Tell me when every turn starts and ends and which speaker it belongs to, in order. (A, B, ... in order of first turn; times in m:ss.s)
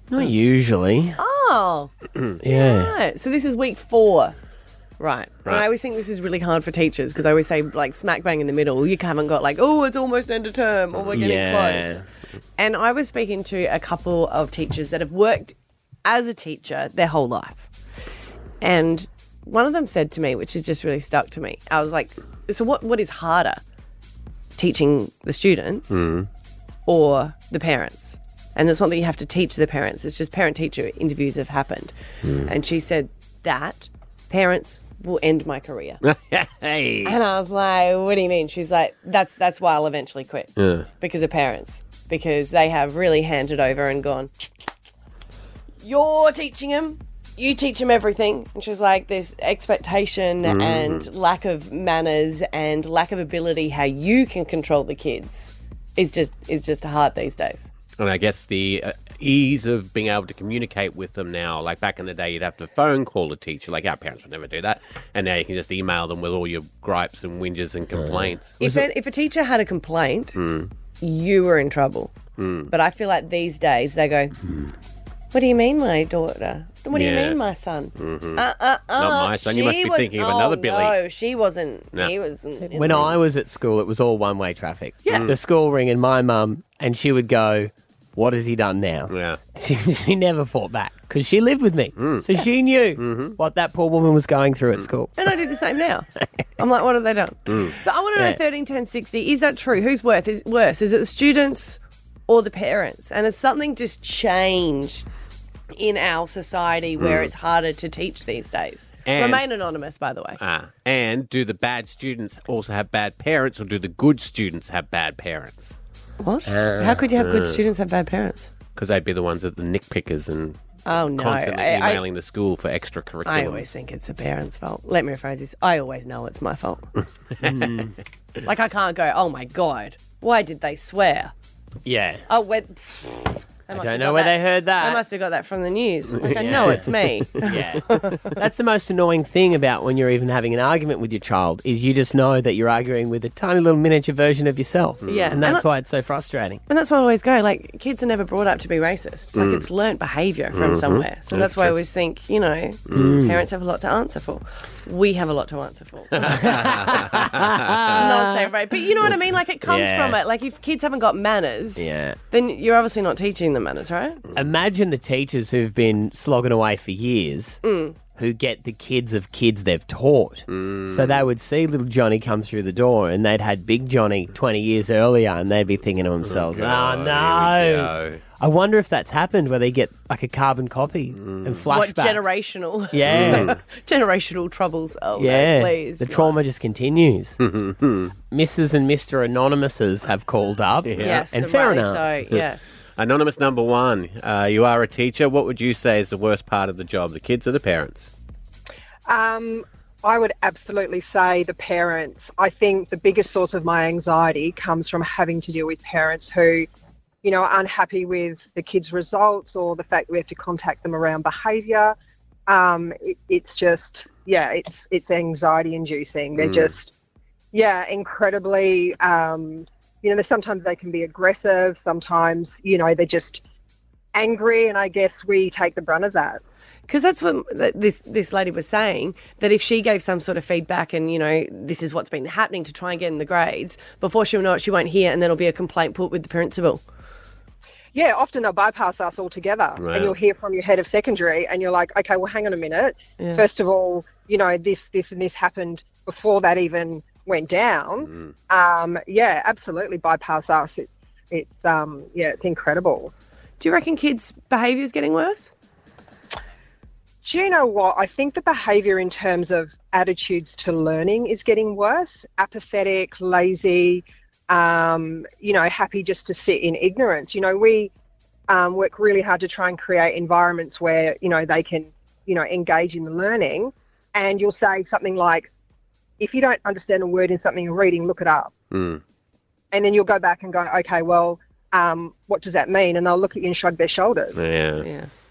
0:00.1-0:01.2 A
0:01.2-0:01.9 B
0:02.4-0:03.0 A
0:02.4-0:04.4 B
0:05.0-0:12.0 B
0:11.1-0:12.0 A
0:12.6-0:17.7 B
0:18.6-0:23.6 B
0:24.6-0:26.1 B
0:25.9-0:26.3 C
0:26.9-0:36.0 B
0:36.0-0:37.2 C
0:37.0-0:44.3 B
0:40.6-0:40.9 C
0:45.8-0:57.7 B
0:50.4-0:51.1 C
0:58.0-1:08.6 C
1:08.6-1:10.4 B
1:10.4-1:10.7 C
1:11.0-1:12.1 B
1:12.4-1:12.7 C
1:12.7-1:14.4 B
1:15.3-1:23.1 B
1:16.9-1:17.4 C
1:18.0-1:18.4 C
1:19.0-1:21.0 C
1:22.7-1:35.1 A
1:22.9-1:23.1 C
1:25.0-1:25.3 B
1:25.1-1:25.4 C
1:29.1-1:29.4 C
1:32.0-1:32.3 C
1:33.0-1:33.4 C
1:35.2-1:45.1 B
1:37.5-1:37.8 C
1:45.7-1:50.4 B
1:47.0-1:47.3 C
1:49.1-1:49.4 C
1:50.4-1:55.8 C
1:56.2-1:58.5 B
1:56.5-1:57.0 A
1:57.2-1:57.6 C
1:58.8-2:00.6 C
2:00.9-2:02.0 B
2:01.1-2:03.7 C
2:03.3-2:06.9 B
2:07.4-2:08.0 A
2:08.4-2:11.3 B
2:11.8-2:12.2 A
2:12.3-2:18.3 B
2:13.7-2:15.0 A
2:16.2-2:17.6 C
2:16.3-2:26.6 A
2:25.0-2:25.4 C
2:25.1-2:25.7 B
2:26.7-2:36.9 B
2:29.4-2:29.6 C
2:30.5-2:31.7 C
2:32.9-2:33.2 C
2:32.9-2:33.4 A
2:36.2-2:38.5 A
2:36.3-2:37.3 C
2:37.9-2:44.2 B
2:39.6-2:40.2 A
2:41.8-2:42.2 A
2:44.4-2:47.6 A
2:47.6-2:48.0 B
2:48.2-3:02.3 A
2:50.5-2:51.2 C
2:56.2-2:58.2 C
3:01.2-3:01.6 C
3:01.7-3:06.4 B
3:02.9-3:03.5 A
3:03.0-3:03.6 C
3:05.2-3:07.4 A
3:07.4-3:08.2 C
3:08.3-3:12.1 A
3:10.8-3:11.2 C
3:11.0-3:12.8 B
3:13.0-3:18.1 C
3:19.1-3:26.7 D
3:27.2-3:32.0 D
3:32.5-3:36.9 D
3:36.4-3:36.7 C
3:37.5-3:43.4 D
3:44.2-3:46.4 D
3:46.9-3:56.8 B
3:57.9-4:13.1 D
3:59.8-4:00.2 C
4:03.2-4:03.4 B
4:13.6-4:15.5 B
4:17.2-4:27.9 D
4:28.5-4:35.5 D
4:36.2-4:38.5 D
4:38.7-4:39.0 C
4:39.7-4:44.4 D
4:44.4-4:44.9 C
4:44.8-4:45.1 B